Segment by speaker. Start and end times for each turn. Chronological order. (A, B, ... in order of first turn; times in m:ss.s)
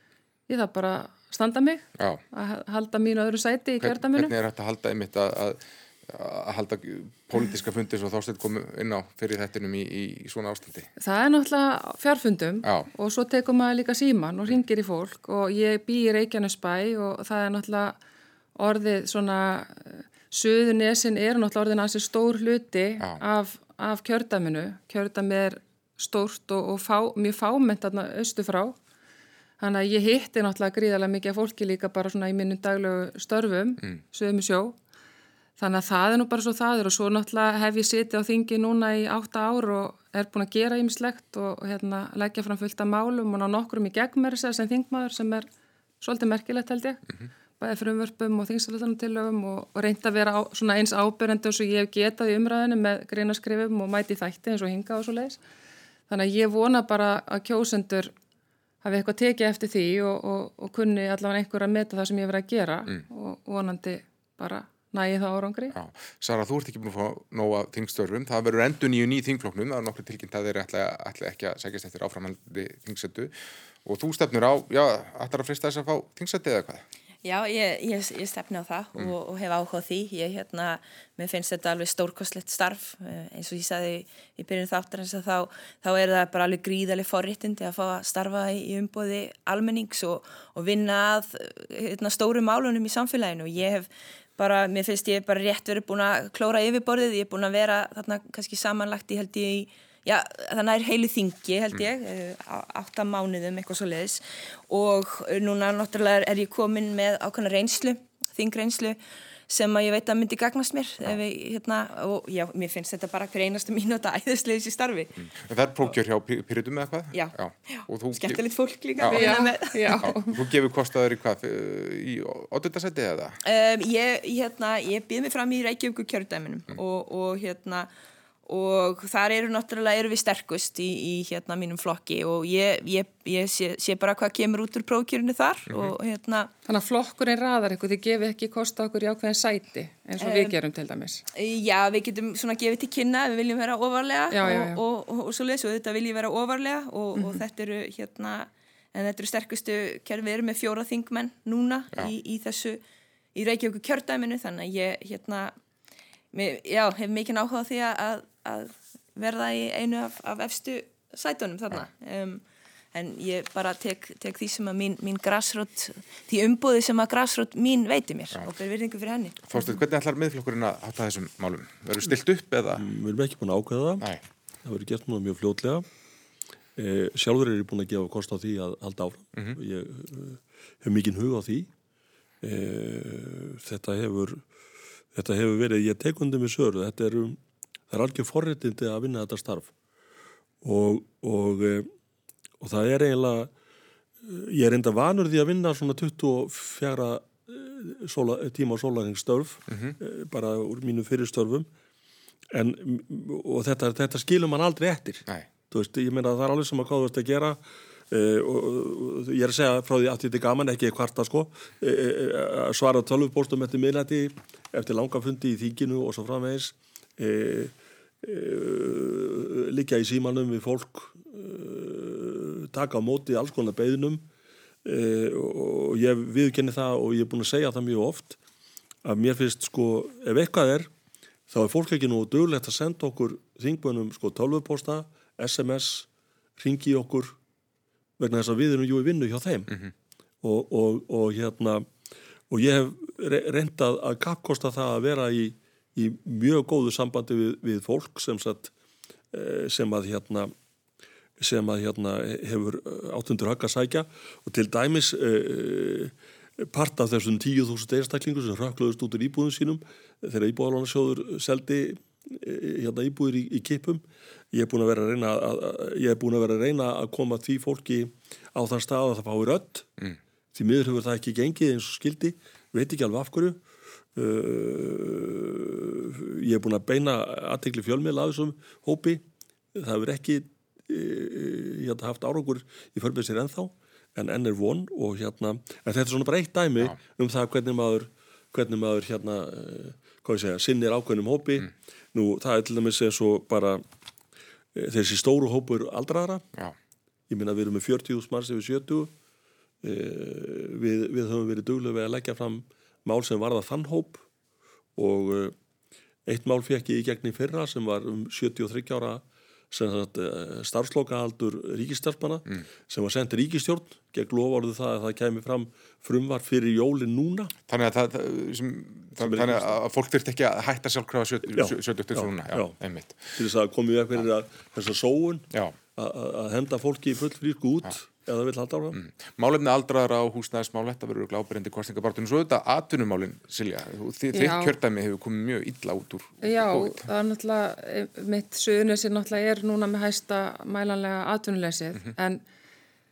0:00.5-0:04.3 A
0:03.8-0:10.9 B
0:11.0-0:18.0 A
0:12.6-0:12.9 B
0:18.6-0:28.8 A
0:29.6-0:34.8 A
0:35.6-0:45.5 A
0:46.0-0:47.0 A
0:47.6-0:55.4 A
0:56.1-0:58.1 A
0:58.8-1:05.7 A
1:05.7-1:13.3 B
1:13.8-1:16.8 B
1:17.2-1:55.2 C
1:55.2-1:58.4 B
1:57.1-2:00.1 C
1:59.0-1:59.4 B
1:59.1-2:00.4 A
2:00.0-2:03.4 B
2:03.4-2:07.9 C
2:08.4-2:16.5 C
2:15.7-2:15.9 B
2:16.7-2:21.2 A
2:20.2-2:20.5 C
2:21.3-2:32.8 C
2:24.3-2:24.8 A
2:27.1-2:27.4 A
2:33.3-2:35.5 C
2:36.3-2:49.5 C
2:49.5-2:52.8 B
2:52.8-2:54.1 D
2:54.6-2:55.8 D
2:56.8-3:01.7 D
3:02.4-3:04.4 D
3:05.1-3:07.4 D
3:07.9-3:09.7 D
3:10.6-3:11.9 D
3:12.6-3:13.5 D
3:14.2-3:21.7 D
3:19.7-3:20.0 B
3:22.5-3:27.6 D
3:28.1-3:44.2 D
3:44.8-3:48.4 D
3:49.0-3:50.9 D
3:51.5-3:57.4 D
3:58.2-3:59.8 D
4:00.4-4:01.8 D
4:02.5-4:08.7 D
4:09.3-4:10.5 D
4:11.4-4:29.9 D
4:30.5-4:33.6 D
4:34.1-4:39.2 D
4:39.7-4:53.8 D
4:54.7-4:56.4 D
4:57.3-4:59.1 D
4:59.8-5:04.2 D
5:05.0-5:05.5 D
5:06.3-5:17.5 D
5:17.7-5:23.3 B
5:19.2-5:19.7 D
5:21.5-5:22.8 D
5:23.3-5:29.0 D
5:28.9-5:37.1 B
5:34.3-5:34.7 A
5:36.4-5:42.4 A